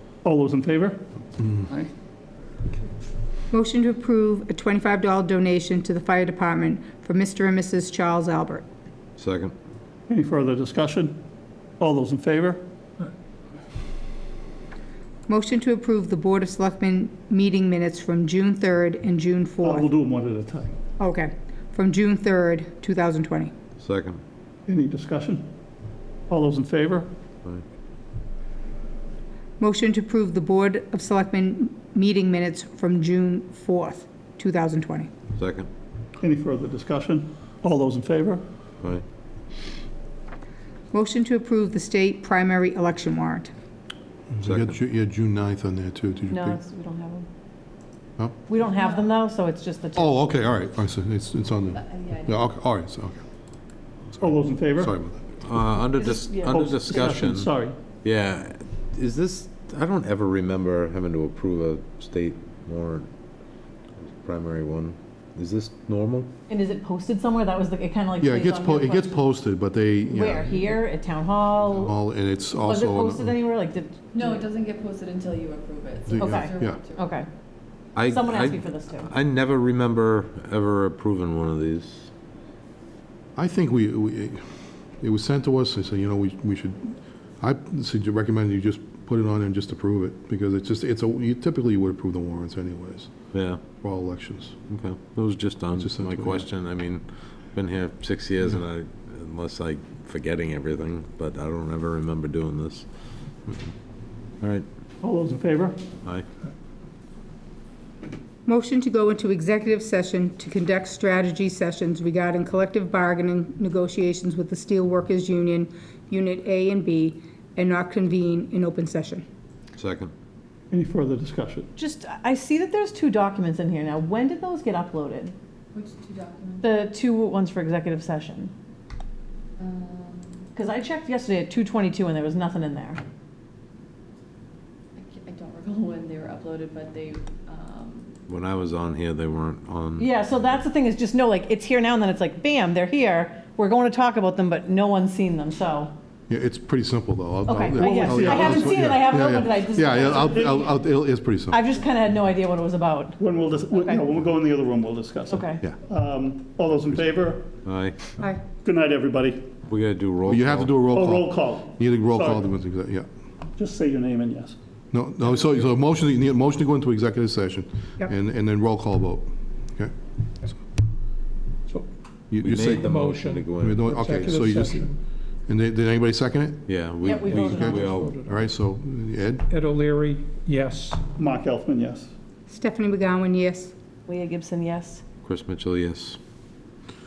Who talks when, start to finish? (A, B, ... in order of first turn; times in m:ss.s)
0:00.2-0:01.0 A
0:03.5-0:08.6 B
0:09.2-0:09.6 C
0:10.1-0:11.2 A
0:11.8-0:12.6 A
0:15.3-0:19.9 B
0:19.6-0:20.8 A
0:21.0-0:23.5 B
0:23.8-0:24.2 C
0:24.7-0:25.5 A
0:26.3-0:27.1 A
0:29.6-0:35.1 B
0:35.4-0:35.7 C
0:36.2-0:38.4 A
0:40.9-0:43.5 B
0:44.3-0:46.6 D
0:44.4-0:44.8 C
0:46.3-0:47.3 E
0:48.5-0:50.3 E
0:50.0-0:53.2 D
0:51.7-0:52.6 F
0:54.2-0:55.0 A
0:54.8-0:55.2 D
0:55.4-0:57.5 C
0:55.9-0:56.6 E
0:56.5-0:57.8 A
0:58.0-1:03.1 C
1:04.0-1:06.3 C
1:06.5-1:09.2 E
1:08.2-1:10.8 D
1:10.1-1:12.0 E
1:11.6-1:13.4 D
1:12.6-1:14.5 E
1:14.1-1:17.2 F
1:16.1-1:16.8 D
1:16.2-1:17.3 E
1:18.0-1:22.1 C
1:18.0-1:19.1 E
1:23.4-1:34.6 D
1:33.3-1:33.6 C
1:34.7-1:43.7 C
1:35.8-1:36.5 D
1:44.4-1:44.7 C
1:45.0-1:45.8 A
1:48.5-1:59.2 B
1:59.8-2:00.1 C
2:00.7-2:01.7 A
2:01.8-2:05.3 E
2:05.7-2:06.7 F
2:06.6-2:08.5 E
2:09.6-2:10.5 F
2:10.5-2:13.0 E
2:15.0-2:18.2 F
2:18.3-2:20.6 C
2:20.0-2:25.9 E
2:26.3-2:31.6 D
2:27.5-2:30.8 E
2:27.8-2:28.6 A
2:30.2-2:30.7 A
2:31.5-2:33.2 E
2:33.2-2:37.5 A
2:33.7-2:34.0 E
2:35.3-2:35.6 E
2:37.6-2:38.0 C
2:38.6-2:39.5 A
2:39.7-2:40.9 C
2:40.3-2:43.1 D
2:40.9-2:42.5 A
2:43.6-2:44.6 A
2:44.9-2:49.9 D
2:52.3-2:52.9 D
2:52.4-2:53.8 C
2:52.8-2:54.9 G
2:53.5-2:54.9 D
2:55.5-2:56.7 D
2:56.7-2:58.2 C
2:57.0-2:57.9 E
2:57.4-2:59.5 D
2:57.6-2:58.3 G
2:59.5-3:01.1 G
3:01.1-3:02.1 A
3:02.5-3:03.7 B
3:04.1-3:05.0 E
3:05.2-3:06.2 C